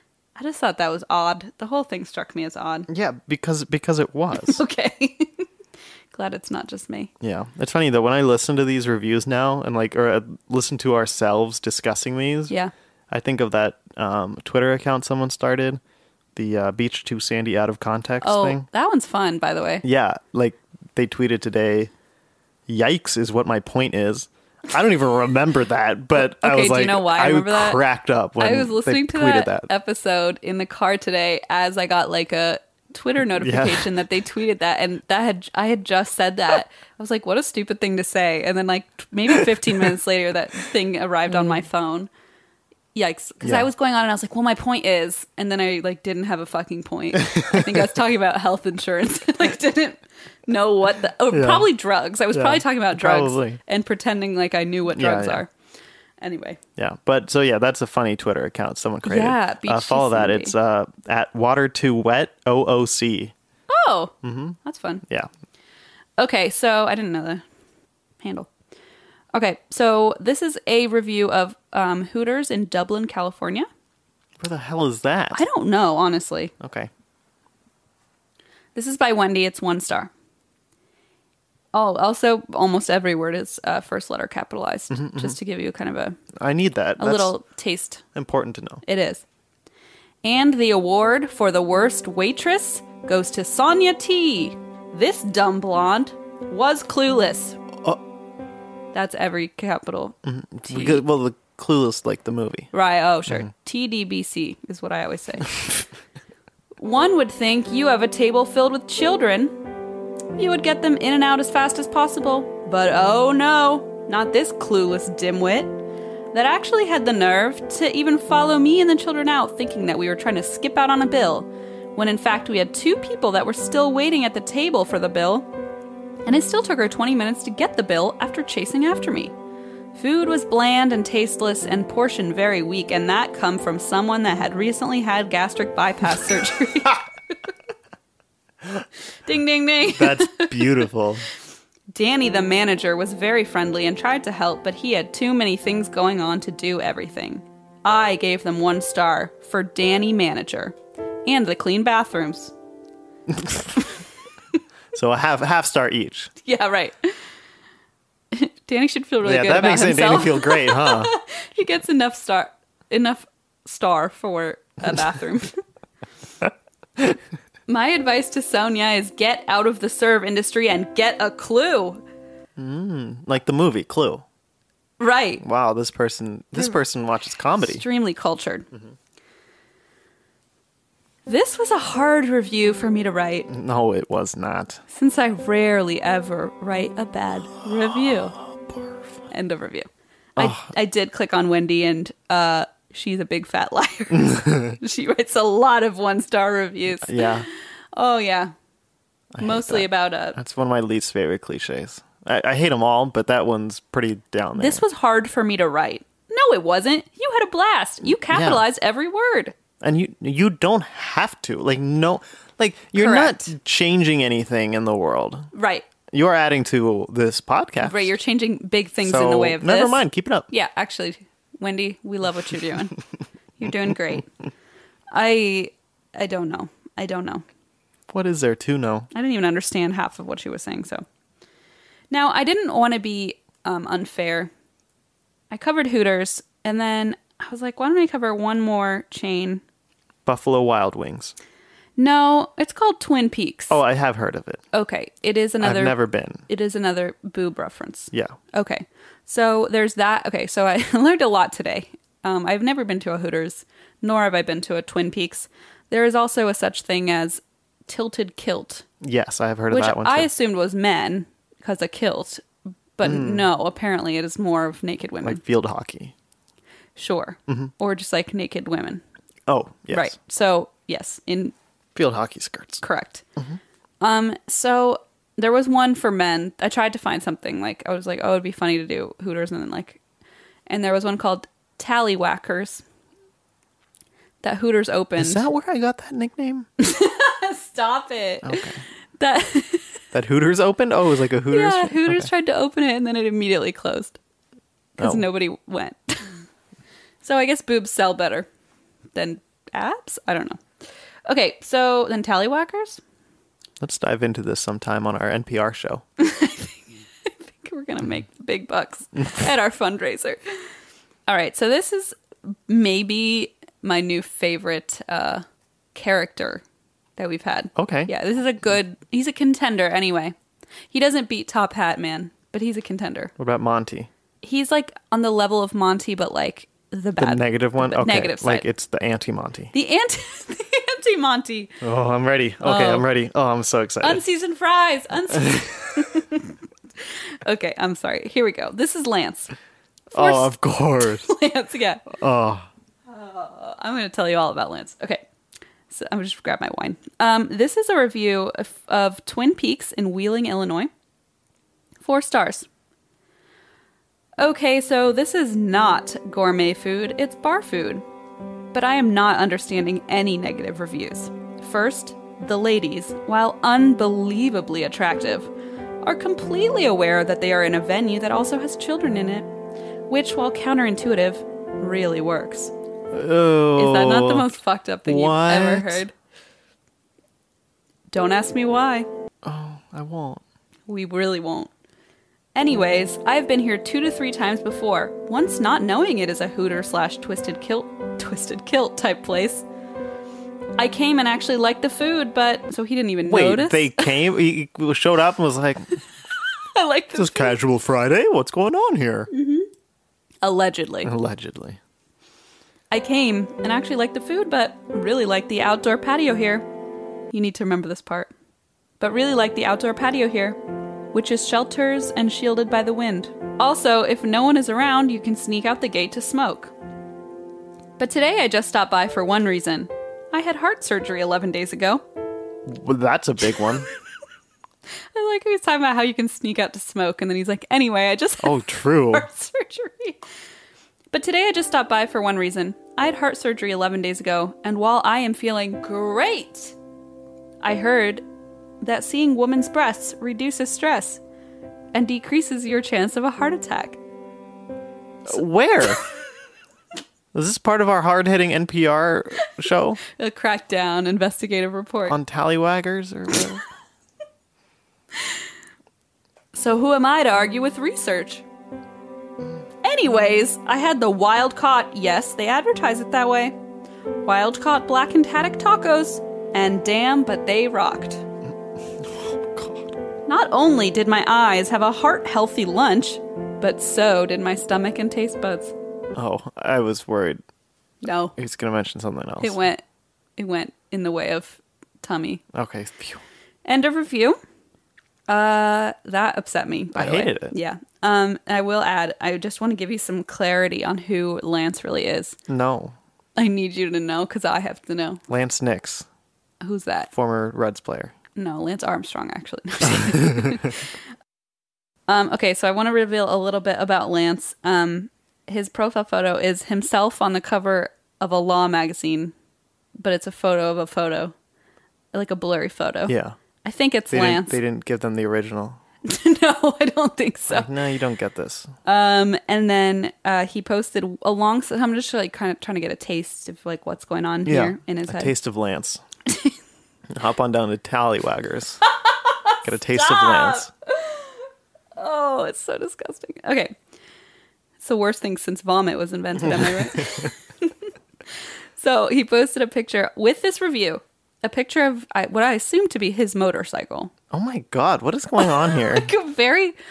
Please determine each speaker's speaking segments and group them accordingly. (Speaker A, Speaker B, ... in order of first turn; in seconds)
Speaker A: 0.3-2.9, 4.3-5.5, 6.1-7.1, 18.2-19.8, 26.2-27.8, 28.4-42.1, 42.9-55.5, 56.2-56.6, 59.0-60.5, 63.7-65.0, 66.2-67.4, 68.2-68.5, 69.3-73.7, 75.3-76.5, 78.7-80.1, 81.7-86.2, 87.0-88.0, 88.8-89.2, 90.2-97.6, 98.9-101.0, 102.7-105.5, 106.8-109.6, 110.3-115.8, 116.3-125.5, 126.2-129.3, 129.9-137.5, 139.2-140.9, 141.9-152.5, 156.4-157.2, 158.3-165.6, 167.7-172.0, 175.0-175.4, 177.6-178.7, 181.2-183.5, 184.9-188.3, 189.3-198.5, 199.4-200.4, 204.6-209.5, 212.9-213.5, 215.5-215.9, 217.8-223.0, 223.6-224.3, 225.1-227.4, 229.1-231.0, 232.1-234.5, 235.5-239.6, 242.0-243.8, 244.7-245.9, 246.5-258.9, 259.7-262.4, 263.0-265.4, 266.9-269.0, 269.9-271.5, 272.8-273.2, 274.0-280.0, 280.7-282.8, 284.4-285.4, 286.8-288.6, 289.2-290.0, 291.5-294.2, 295.0-296.4, 297.2-298.5, 299.1-300.6, 301.2-303.0, 306.2-310.7, 311.3-316.6, 317.2-320.3, 320.9-323.3, 324.4-328.7, 329.7-331.8, 332.6-333.1, 334.0-339.5, 340.1-342.1, 343.1-345.2, 345.9-350.9, 352.0-352.7, 354.4-358.0, 358.7-365.5, 366.0-369.5, 370.1-372.7, 373.8-376.1, 378.1-379.1, 380.9-381.7, 382.5-389.6, 390.8-394.1, 396.3-397.6, 399.3-399.7, 400.4-401.1, 402.9-406.7, 407.3-408.3, 409.0-410.6, 411.1-416.7, 418.0-422.0, 425.1-430.2, 431.1-436.8, 437.6-438.2, 438.8-441.2, 441.9-444.0, 450.1-452.2, 455.1-455.4, 456.5-458.4, 459.8-463.6, 464.2-468.2, 470.3-475.7, 478.0-478.4, 479.4-479.8, 480.4-482.4, 483.6-484.4, 485.3-492.4, 493.4-495.2, 496.6-497.1, 498.3-500.9, 502.1-509.3, 510.0-511.3, 512.1-514.6, 516.0-517.7, 518.8-525.3, 526.2-526.6, 528.9-533.7, 534.8-537.9, 538.8-544.1, 545.4-546.8
Speaker B: 2.9-4.6, 7.2-12.5, 13.1-15.8, 16.3-18.6, 19.8-21.9, 22.7-29.7, 33.4-33.9, 43.4-43.7, 47.3-47.6, 51.3-51.7, 52.3-53.6, 54.9-55.4, 56.8-63.3, 64.2-65.3, 74.4-75.4, 76.6-76.9, 84.9-85.3, 86.4-87.3, 88.1-88.8, 100.2-102.7, 139.8-141.2, 153.3-153.9, 154.9-156.3, 159.2-161.1, 172.6-174.2, 175.4-177.8, 183.5-184.8, 190.4-190.7, 194.1-194.8, 197.0-197.5, 199.3-204.8, 208.3-208.6, 209.8-215.5, 216.1-218.1, 219.0-220.5, 228.1-229.1, 240.2-241.3, 243.7-244.6, 245.6-246.4, 259.0-260.3, 263.0-263.5, 265.2-266.1, 269.5-270.1, 271.9-272.8, 285.2-286.7, 288.4-288.8, 290.1-292.3, 295.0-295.2, 303.8-306.0, 317.8-318.1, 323.4-324.1, 327.2-329.7, 331.8-334.2, 340.1-341.3, 342.1-342.7, 373.1-374.5, 375.1-376.0, 379.4-380.4, 393.2-396.0, 397.1-399.3, 401.0-401.8, 422.7-423.9, 428.4-429.3, 445.2-446.0, 447.3-450.0, 452.1-453.6, 469.0-469.9, 476.1-477.4, 478.4-479.6, 482.5-483.2, 486.9-487.5, 492.5-492.9, 495.3-496.1, 497.1-498.1, 513.1-513.4, 514.1-515.8, 517.5-518.7, 524.5-526.0, 527.1-528.8, 529.6-530.7, 536.5-537.3, 544.3-546.1